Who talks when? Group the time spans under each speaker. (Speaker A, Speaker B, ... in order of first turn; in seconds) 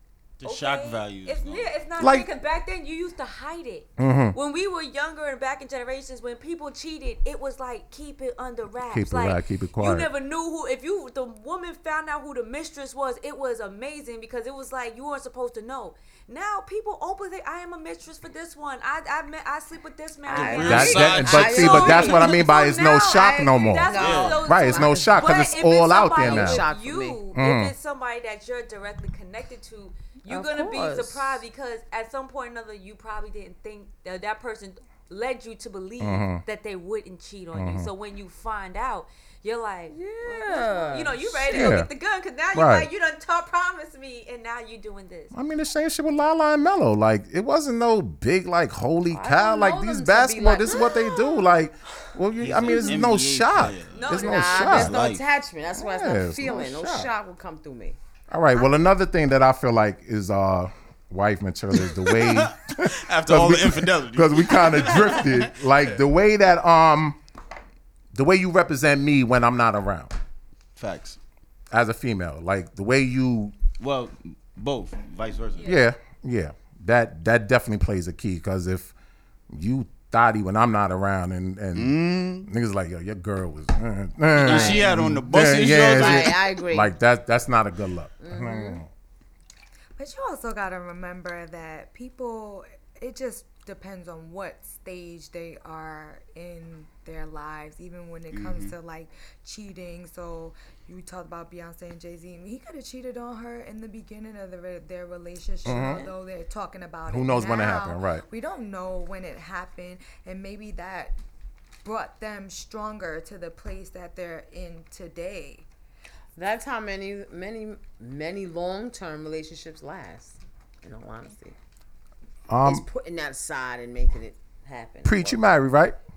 Speaker A: 0.4-1.7, 20.3-22.3, 23.9-24.4, 52.4-55.2, 61.8-65.6, 70.8-71.2, 73.8-75.7, 81.7-82.5, 84.3-86.4, 98.3-98.7
Speaker B: 0.4-45.3, 50.9-51.1, 53.9-54.8, 75.5-75.8
Speaker C: 2.0-2.3, 4.0-4.4, 8.9-10.1, 20.6-26.7, 27.3-27.7, 36.0-36.4, 37.5-37.9, 41.5-41.9, 42.5-42.9, 45.3-54.9, 55.7-57.1, 58.3-67.2, 68.1-70.1, 71.7-73.5, 75.6-78.9, 79.5-88.9, 105.6-106.0, 107.1-108.2, 122.5-122.8, 125.0-126.0
Speaker D: 20.2-25.2, 26.2-27.2, 30.3-31.4, 39.9-41.7, 49.1-50.8, 54.1-58.0, 84.4-84.8, 85.9-86.9, 88.2-88.8, 105.8-106.1, 116.3-121.5, 122.6-125.4
Speaker E: 90.0-111.2, 111.8-115.7